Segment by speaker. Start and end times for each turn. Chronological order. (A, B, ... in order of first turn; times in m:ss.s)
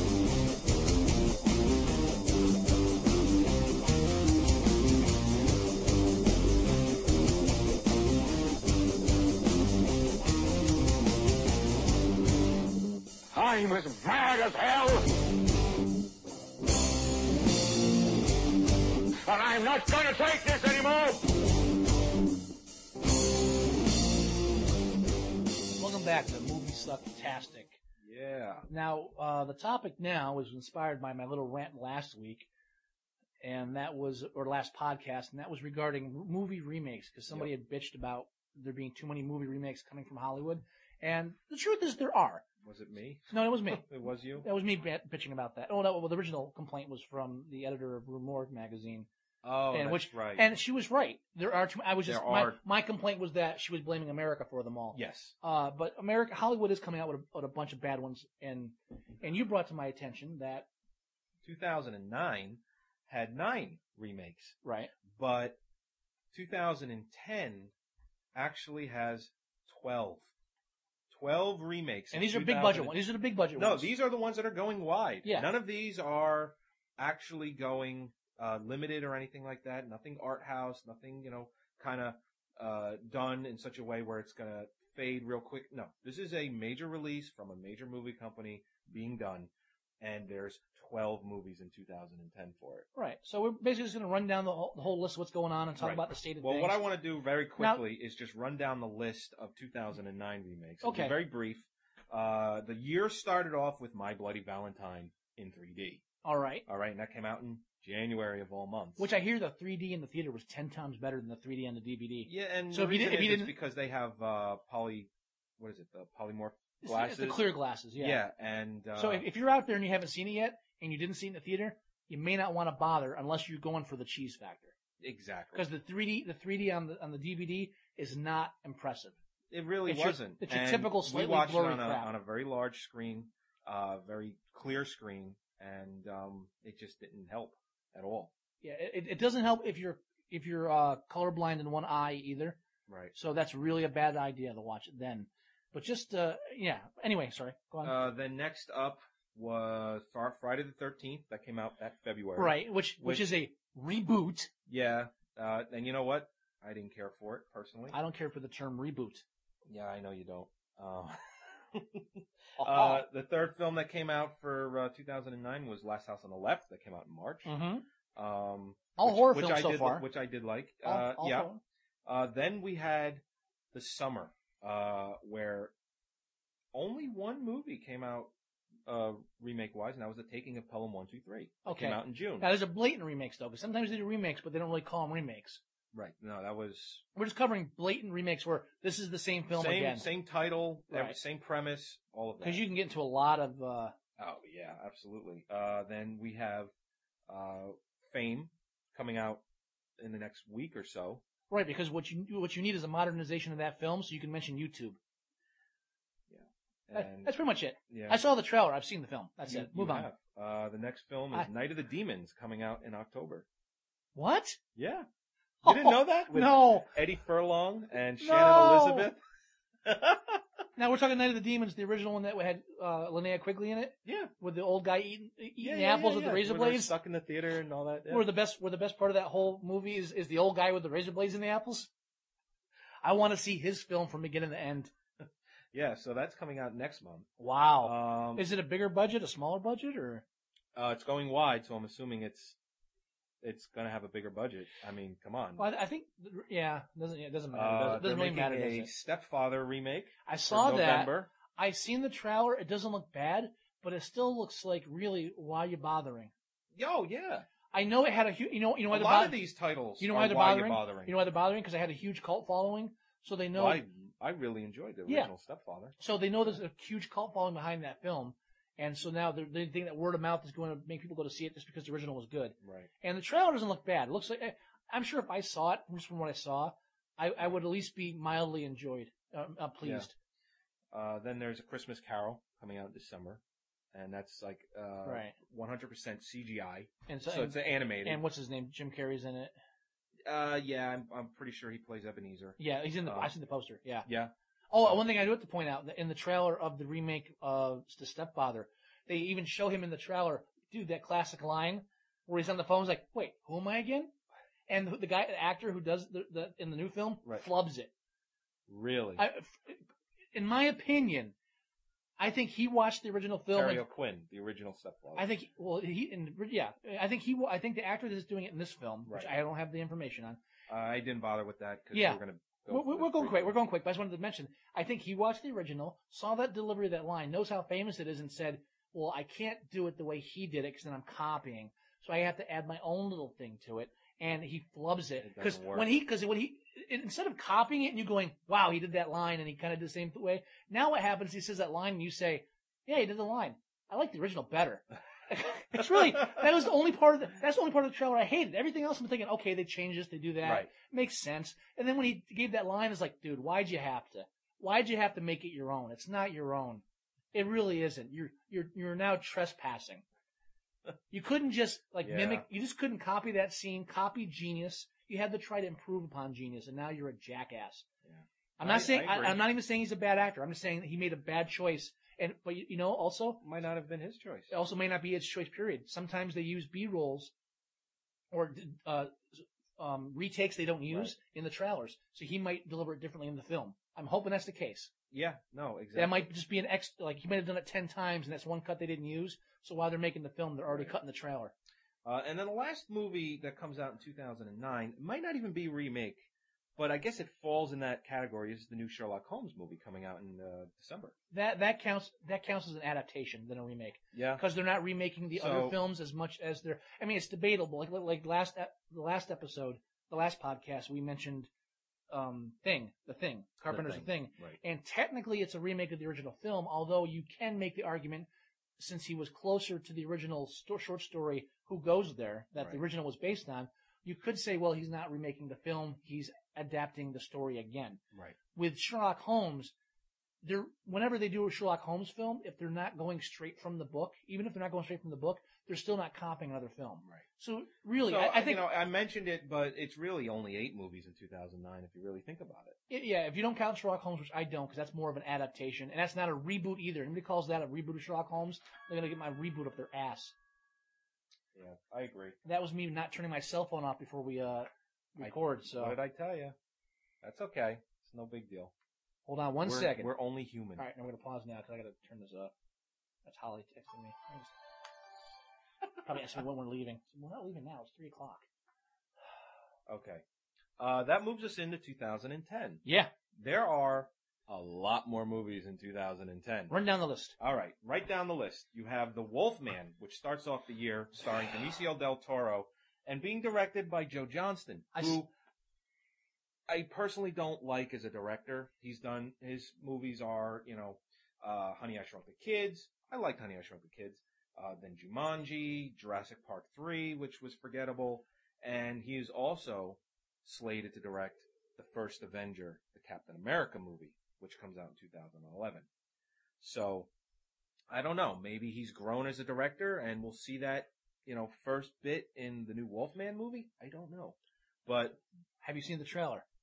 0:13.3-0:15.0 A
0:19.2-0:21.2 A
0:25.8-0:27.8 B
0:28.0-0:28.7 C
0:28.7-0:32.5 B
0:33.4-0:42.4 B
0:42.6-0:44.5 C
0:43.3-0:49.1 B
0:49.4-0:50.5 C
0:49.7-1:00.7 B
0:52.0-0:52.6 C
0:54.9-0:55.3 C
1:01.4-1:04.5 C
1:04.6-1:04.9 B
1:05.1-1:05.6 C
1:06.3-1:07.7 C
1:08.3-1:10.3 C
1:11.1-1:13.0 C
1:12.1-1:13.9 B
1:13.5-1:32.9 C
1:15.2-1:15.5 B
1:32.9-1:36.8 B
1:35.8-1:46.0 C
1:37.6-1:37.8 B
1:40.8-1:41.2 B
1:46.2-1:46.6 B
1:46.6-1:49.1 C
1:49.0-1:53.5 B
1:52.2-1:59.3 C
1:56.8-1:58.2 B
1:59.0-2:04.7 B
2:05.0-2:05.7 C
2:05.5-2:09.1 B
2:09.5-2:18.3 C
2:09.8-2:12.1 B
2:18.6-2:22.6 B
2:22.9-2:23.1 C
2:23.1-2:28.0 B
2:27.8-2:33.3 C
2:32.4-2:34.5 B
2:34.7-2:38.0 C
2:37.9-2:39.2 B
2:39.6-2:47.5 C
2:42.6-2:43.0 B
2:47.4-2:47.8 B
2:48.1-2:51.5 C
2:49.0-2:50.1 B
2:50.8-2:51.6 B
2:52.0-2:55.7 C
2:56.7-2:58.3 C
2:58.8-3:02.5 C
3:01.6-3:05.6 B
3:05.9-3:07.0 C
3:07.1-3:10.1 B
3:09.5-3:12.6 C
3:10.9-3:11.2 B
3:12.4-3:13.9 B
3:14.2-3:16.7 C
3:17.3-3:19.4 C
3:20.0-3:21.2 C
3:21.5-3:25.0 B
3:26.3-3:28.2 C
3:26.9-3:30.1 B
3:29.4-3:33.4 C
3:34.1-3:34.6 B
3:34.7-3:35.1 C
3:35.6-3:36.9 B
3:35.6-3:39.2 C
3:38.2-3:39.1 B
3:39.8-3:40.4 C
3:40.8-3:46.9 B
3:44.0-3:44.3 C
3:45.6-3:48.3 C
3:48.1-3:51.9 B
3:53.0-3:54.9 B
3:55.2-3:58.5 C
3:57.4-4:00.2 B
4:00.7-4:02.6 C
4:03.4-4:05.7 C
4:05.6-4:08.9 B
4:07.5-4:11.3 C
4:10.2-4:16.3 B
4:16.7-4:17.5 C
4:17.7-4:19.4 B
4:18.9-4:21.2 C
4:20.0-4:23.8 B
4:23.5-4:26.6 C
4:26.0-4:40.2 B
4:32.6-4:32.9 C
4:39.8-4:40.1 C
4:40.9-4:43.4 C
4:43.9-4:48.2 C
4:45.0-4:45.4 B
4:47.1-4:49.5 B
4:50.2-4:53.3 C
4:52.6-4:54.1 B
4:54.0-4:55.0 C
4:54.7-5:04.1 B
5:04.7-5:07.9 B
5:08.7-5:09.2 C
5:09.2-5:11.3 B
5:12.2-5:13.8 B
5:13.5-5:15.3 C
5:15.2-5:20.4 B
5:19.0-5:19.4 C
5:20.7-5:23.5 C
5:21.9-5:56.8 B
5:35.2-5:36.0 C
5:45.7-5:46.4 C
5:50.4-5:50.7 C
5:57.3-6:00.0 B
6:01.1-6:07.8 B
6:02.0-6:02.4 C
6:08.0-6:09.4 C
6:08.6-6:13.4 B
6:13.4-6:14.5 C
6:14.5-6:17.3 B
6:18.3-6:24.9 B
6:20.9-6:21.1 C
6:25.1-6:26.3 C
6:25.9-6:31.5 B
6:30.7-6:31.0 C
6:32.0-6:41.1 C
6:41.3-6:51.5 B
6:44.1-6:44.4 C
6:45.3-6:45.8 C
6:52.1-6:58.3 B
6:53.7-6:54.6 C
6:58.8-7:08.0 B
7:08.5-7:09.7 B
7:10.4-7:18.7 B
7:18.0-7:22.8 C
7:22.9-7:30.3 B
7:31.5-7:32.4 C
7:32.4-7:36.0 B
7:35.2-7:36.5 C
7:37.2-7:38.7 C
7:39.2-7:40.1 B
7:39.6-7:40.8 C
7:40.8-7:42.5 B
7:43.2-7:44.5 B
7:46.0-7:48.4 B
7:49.9-7:50.2 C
7:50.8-7:56.7 C
7:52.8-7:53.1 B
7:56.7-7:57.4 B
7:57.4-8:05.3 C
8:04.9-8:05.2 B
8:06.7-8:25.9 C
8:26.6-8:27.1 C
8:27.9-8:35.2 C
8:35.6-8:36.4 B